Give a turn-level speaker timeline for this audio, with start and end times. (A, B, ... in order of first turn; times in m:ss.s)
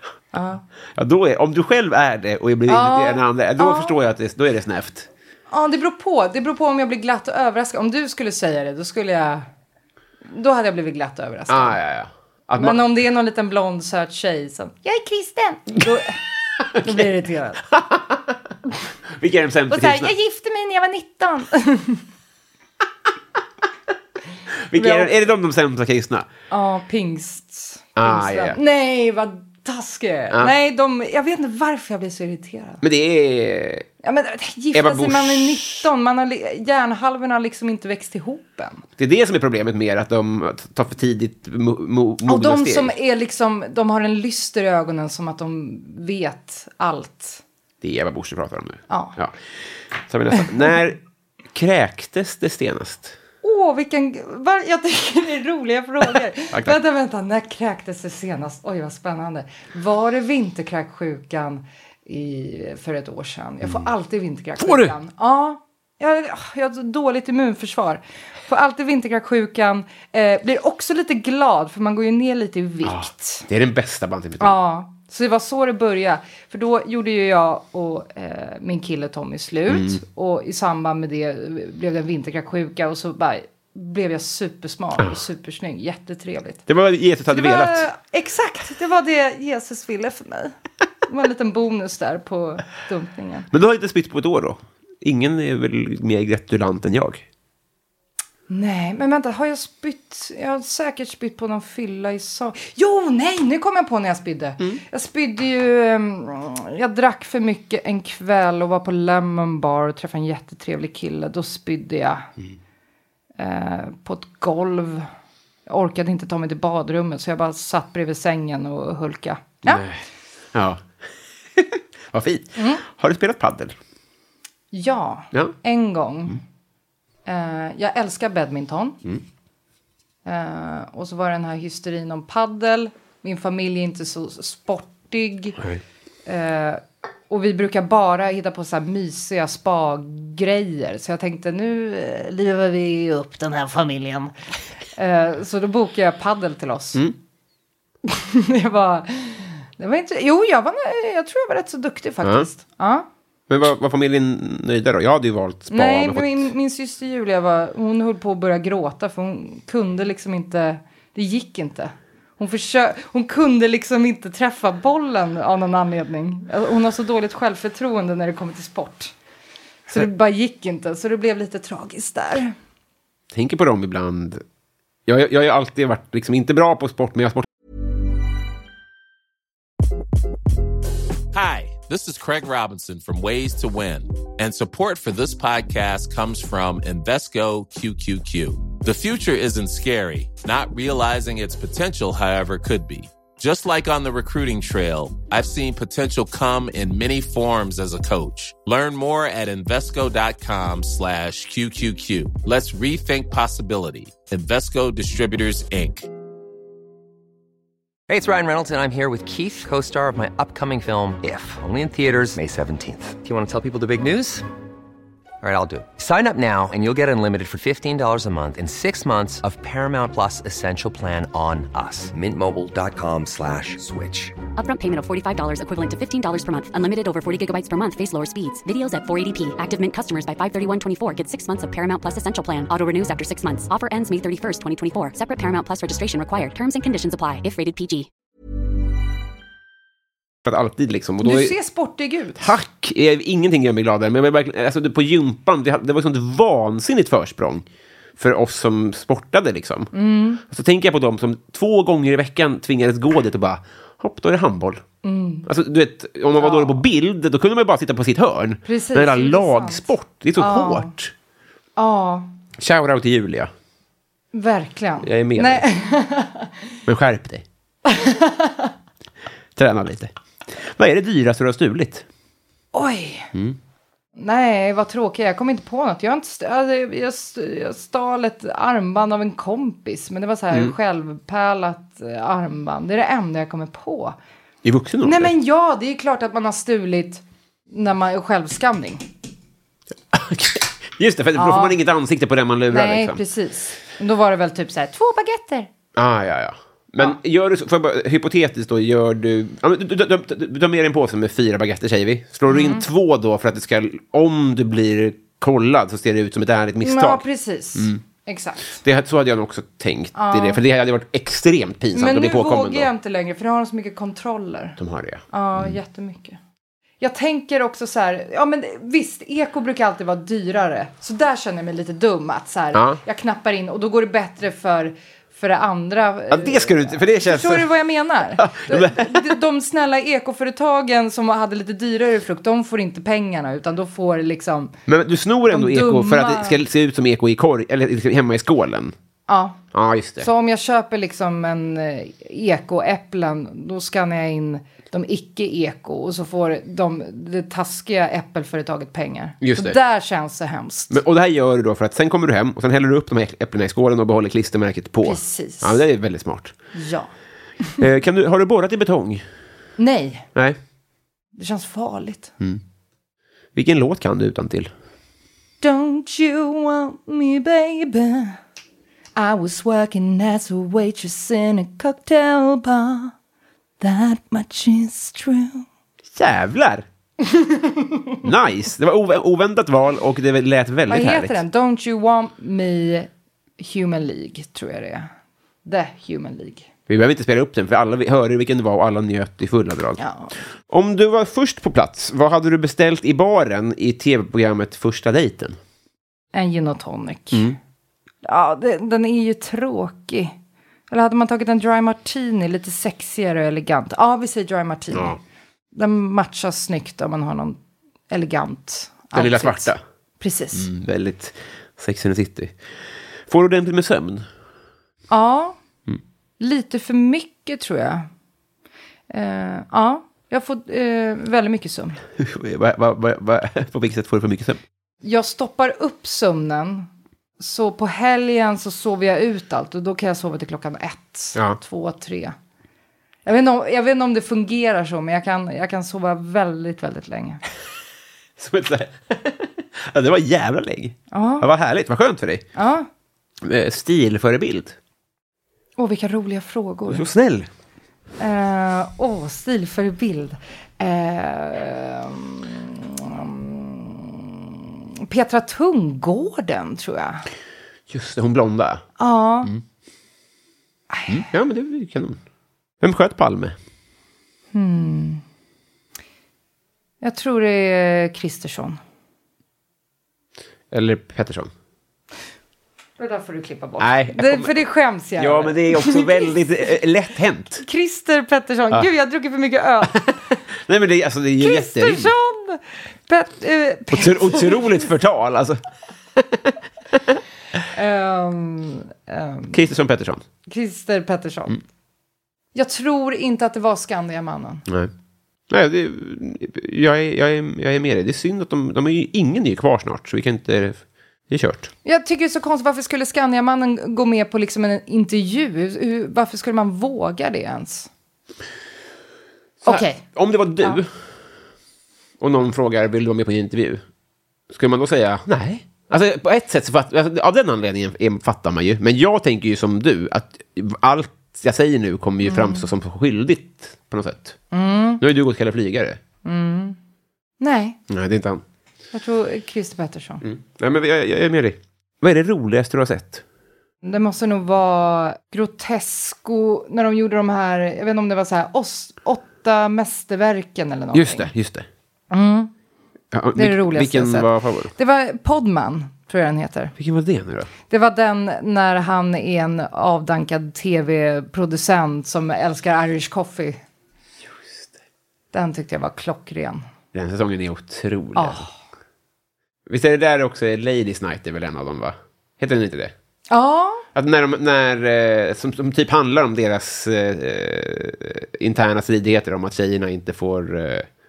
0:00.3-0:00.6 A
0:01.0-0:05.1 B
0:02.7-0:03.9 A
0:05.5-0:09.4 A
0:10.3-0:11.8 A
0:11.5-0:12.8 B
0:12.6-0:16.2 A
0:16.7-0:17.1 B
0:16.7-0:17.6 A
0:17.7-0:18.4 B
0:19.1-0:20.1 B
0:19.7-0:22.0 A
0:24.7-0:26.3 B
0:24.7-0:25.3 A
0:26.5-0:32.8 A
0:28.0-0:28.6 B
0:32.8-0:33.9 B
0:34.0-0:38.8 A
0:34.7-0:35.9 B
0:39.0-0:42.9 B
0:42.2-0:47.4 A
0:47.8-0:49.4 B
0:48.9-0:49.2 A
0:50.1-0:51.0 B
0:51.5-0:53.2 B
0:53.4-1:13.5 A
1:04.6-1:05.0 B
1:12.8-1:14.6 B
1:14.4-1:26.6 A
1:19.7-1:20.0 B
1:26.7-1:27.9 B
1:27.3-1:33.5 A
1:33.5-1:37.2 B
1:38.5-1:52.3 A
1:53.4-1:55.1 A
1:55.7-1:59.8 A
1:59.6-2:00.9 B
2:01.5-2:03.7 B
2:02.6-2:02.8 A
2:04.7-2:06.4 A
2:07.2-2:09.0 A
2:10.2-2:15.6 A
2:16.2-2:24.3 A
2:25.0-2:27.0 A
2:28.0-2:33.1 A
2:32.2-2:32.5 B
2:33.5-2:36.5 B
2:35.7-2:49.1 A
2:49.9-2:52.5 A
2:53.3-2:54.4 B
2:55.0-2:57.5 B
3:01.3-3:26.1 C
3:28.1-3:34.4 D
3:35.4-3:44.3 D
3:44.6-3:58.1 E
4:00.4-4:01.5 B
4:01.2-4:02.5 A
4:02.4-4:07.6 B
4:08.2-4:09.9 B
4:09.9-4:10.4 A
4:10.4-4:14.8 B
4:15.0-4:15.5 A
4:15.4-4:21.1 B
4:16.4-4:16.8 A
4:18.6-4:20.9 A
4:21.8-4:22.3 A
4:22.6-4:23.5 B
4:24.3-4:26.6 A
4:25.0-4:25.6 B
4:26.9-4:27.4 B
4:27.9-4:28.7 A
4:29.6-4:32.0 B
4:32.7-4:33.3 A
4:34.2-4:44.2 A
4:44.6-4:45.3 B
4:45.0-4:49.1 A
4:50.1-4:53.2 B
4:51.4-4:51.8 A
4:52.7-4:55.7 A
4:55.9-5:08.0 B
5:02.5-5:02.8 A
5:06.8-5:08.8 A
5:08.8-5:12.9 B
5:10.1-5:10.6 A
5:11.9-5:14.8 A
5:14.8-5:15.8 B
5:15.3-5:16.4 A
5:17.0-5:34.7 A
5:22.7-5:23.0 B
5:26.3-5:27.7 B
5:28.4-5:29.4 B
5:34.9-5:38.9 B
5:35.5-5:36.6 A
5:39.3-5:39.6 A
5:39.7-5:40.3 B
5:40.2-5:51.0 A
5:49.4-5:49.8 B
5:50.9-5:56.5 B
5:55.0-5:55.8 A
5:56.7-5:57.1 A
5:57.8-5:59.2 B
5:59.8-6:00.3 A
6:01.4-6:02.3 A
6:03.5-6:04.7 B
6:05.6-6:08.4 A
6:09.2-6:13.1 A
6:13.8-6:15.6 A
6:16.1-6:16.8 B
6:17.3-6:18.1 A
6:18.2-6:21.4 B
6:20.9-6:25.1 A
6:25.6-6:26.7 A
6:26.9-6:30.0 B
6:30.0-6:30.3 A
6:30.7-6:35.6 B
6:36.3-6:37.5 A
6:37.3-6:37.6 B
6:38.2-6:40.4 A
6:40.9-6:45.2 A
6:44.9-6:45.2 B
6:45.7-6:50.7 A
6:49.1-6:49.8 B
6:50.5-6:52.6 B
6:53.3-6:54.3 B
6:55.1-6:55.6 A
6:56.4-6:58.1 A
6:59.1-7:02.0 A
7:02.2-7:04.6 B
7:05.0-7:12.3 A
7:13.2-7:17.4 A
7:18.4-7:22.4 B
7:21.1-7:21.5 A
7:22.5-7:22.9 A
7:23.4-7:24.8 B
7:25.8-7:27.0 A
7:26.9-7:27.5 B
7:28.2-7:37.2 A
7:37.9-7:38.8 B
7:39.0-7:39.5 A
7:40.9-7:41.3 A
7:41.1-7:42.2 B
7:42.8-7:43.6 B
7:44.5-7:45.2 A
7:47.0-7:48.8 A
7:50.7-7:51.5 B
7:53.0-7:56.4 A
7:53.8-7:54.6 B
7:55.2-7:57.6 B
7:57.6-8:00.0 A
7:59.9-8:02.1 B
8:01.4-8:04.6 A
8:03.9-8:05.6 B
8:06.2-8:06.5 B
8:07.7-8:09.6 A
8:09.5-8:10.2 B
8:10.5-8:11.6 A
8:12.5-8:14.6 A
8:15.5-8:21.7 B
8:21.8-8:27.9 A
8:29.6-8:30.9 B
8:29.6-8:30.0 A
8:32.2-8:33.8 B
8:34.5-8:44.4 B
8:42.2-8:42.7 A
8:44.5-8:45.0 A
8:45.0-8:46.0 B
8:46.2-8:46.8 A
8:47.4-8:47.8 A
8:47.9-8:48.4 B
8:48.9-8:50.2 A
8:50.2-8:53.2 B
8:53.8-9:01.3 A
9:00.9-9:01.7 B
9:02.1-9:02.5 A
9:03.1-9:04.7 B
9:03.3-9:06.7 A
9:06.8-9:07.5 B
9:07.7-9:13.6 A
9:14.3-9:14.7 B
9:15.3-9:16.6 A
9:16.9-9:18.5 B
9:18.1-9:18.5 A
9:19.7-9:22.9 B
9:23.3-9:23.8 A
9:23.9-9:30.9 B